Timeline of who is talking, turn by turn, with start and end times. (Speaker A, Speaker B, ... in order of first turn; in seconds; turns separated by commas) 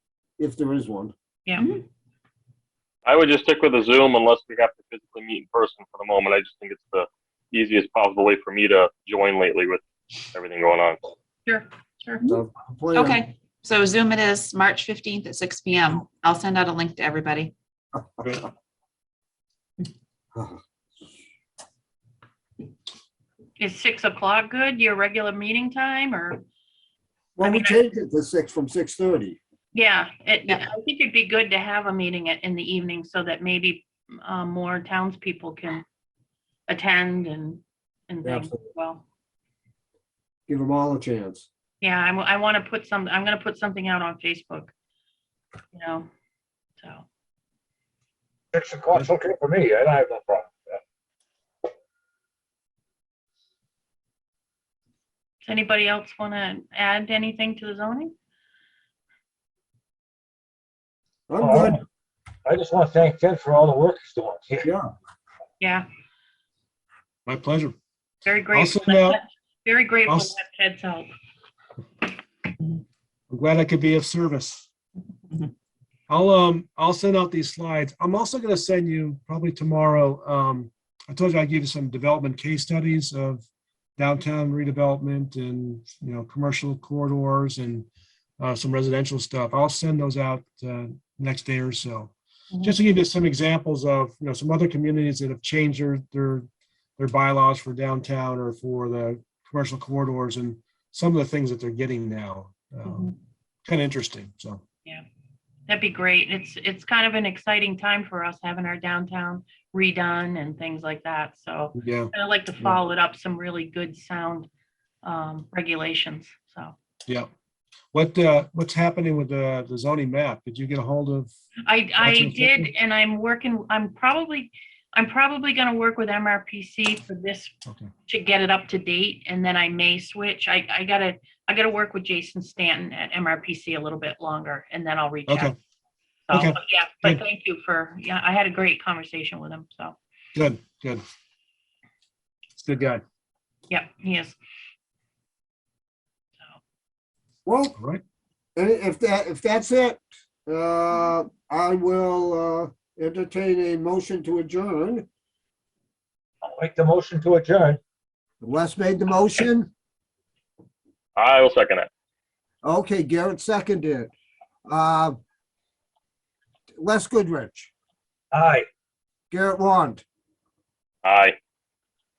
Speaker A: 0.4-1.1, Speaker B: 1.4-1.7, Speaker C: 3.0-9.8, Speaker C: 10.3-11.0, Speaker B: 11.4-12.2, Speaker A: 12.2-13.2, Speaker D: 12.9-17.5, Speaker A: 20.3-20.6, Speaker B: 23.6-26.4, Speaker A: 27.4-29.4, Speaker B: 27.4-27.8, Speaker B: 29.7-35.8, Speaker B: 36.7-39.0, Speaker A: 38.2-38.5, Speaker A: 40.5-41.5, Speaker B: 41.8-44.7, Speaker B: 45.7-46.1, Speaker B: 46.8-47.0, Speaker E: 48.5-50.5, Speaker B: 55.4-58.1, Speaker A: 61.3-61.8, Speaker E: 61.4-61.7, Speaker E: 62.5-64.7, Speaker A: 64.6-64.9, Speaker B: 65.6-65.8, Speaker F: 67.2-67.7, Speaker B: 68.2-71.1, Speaker F: 68.5-69.2, Speaker F: 70.1-70.3, Speaker F: 73.3-74.7, Speaker F: 76.1-83.4, Speaker F: 84.0-87.9, Speaker F: 88.4-96.5, Speaker B: 92.5-92.8, Speaker F: 97.0-103.1, Speaker F: 103.6-104.6, Speaker B: 105.7-114.5, Speaker F: 111.7-112.8, Speaker B: 115.0-116.7, Speaker F: 117.9-121.3, Speaker B: 121.7-127.5, Speaker F: 122.0-122.7, Speaker B: 128.1-135.5, Speaker F: 135.3-135.6, Speaker B: 136.3-139.9, Speaker F: 136.3-137.2, Speaker F: 140.3-141.0, Speaker F: 142.6-143.0, Speaker B: 143.7-144.3, Speaker A: 147.4-147.8, Speaker F: 147.8-148.0, Speaker A: 148.6-155.1, Speaker E: 156.5-157.8, Speaker A: 158.4-159.7, Speaker C: 161.2-161.9, Speaker A: 162.6-164.1, Speaker A: 164.7-165.2, Speaker A: 166.8-167.7, Speaker E: 168.3-168.6, Speaker A: 169.3-170.0, Speaker C: 171.0-171.3